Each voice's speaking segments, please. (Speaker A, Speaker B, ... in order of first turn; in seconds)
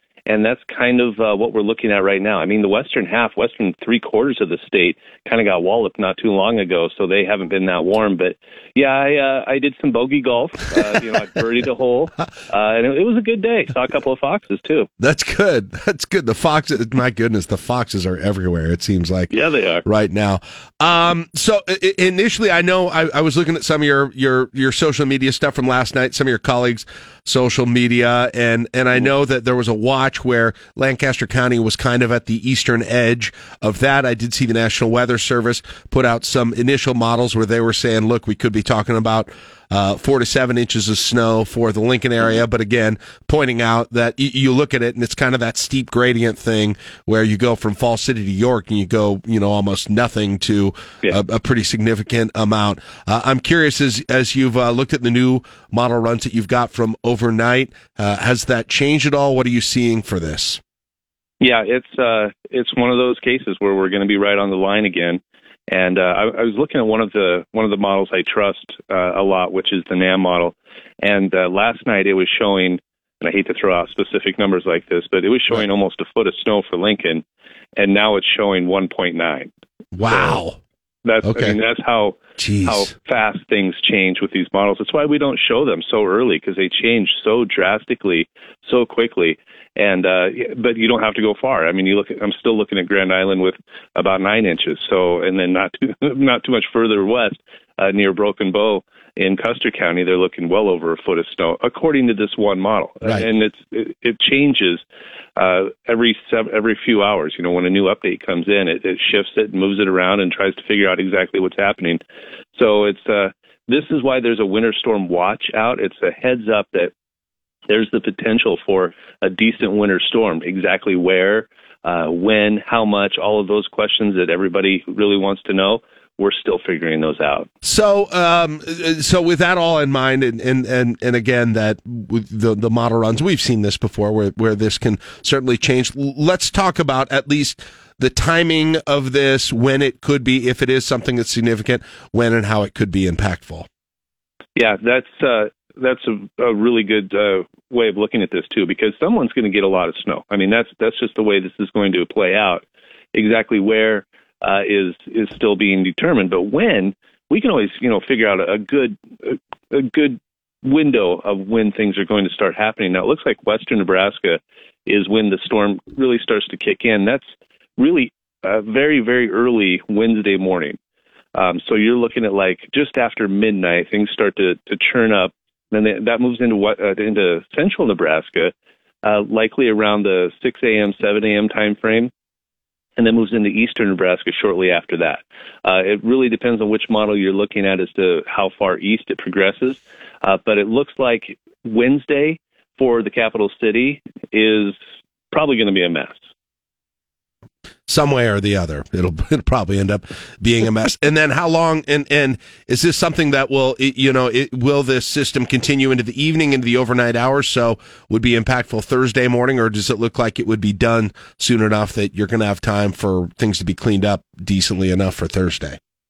Speaker A: 0.3-14.9, 19.3-19.8, 61.4-77.2, 77.8-79.5, 80.1-80.4, 81.0-104.8, 105.4-112.0, 112.5-116.9, 117.7-127.5, 144.6-167.2, 167.8-170.8, 171.3-178.5, 179.0-182.1, 183.0-194.8, 195.3-196.2
Speaker B: 15.0-19.3, 19.8-60.6, 79.9-80.6, 81.2-81.6, 82.4-82.9, 127.6-143.7, 197.9-215.8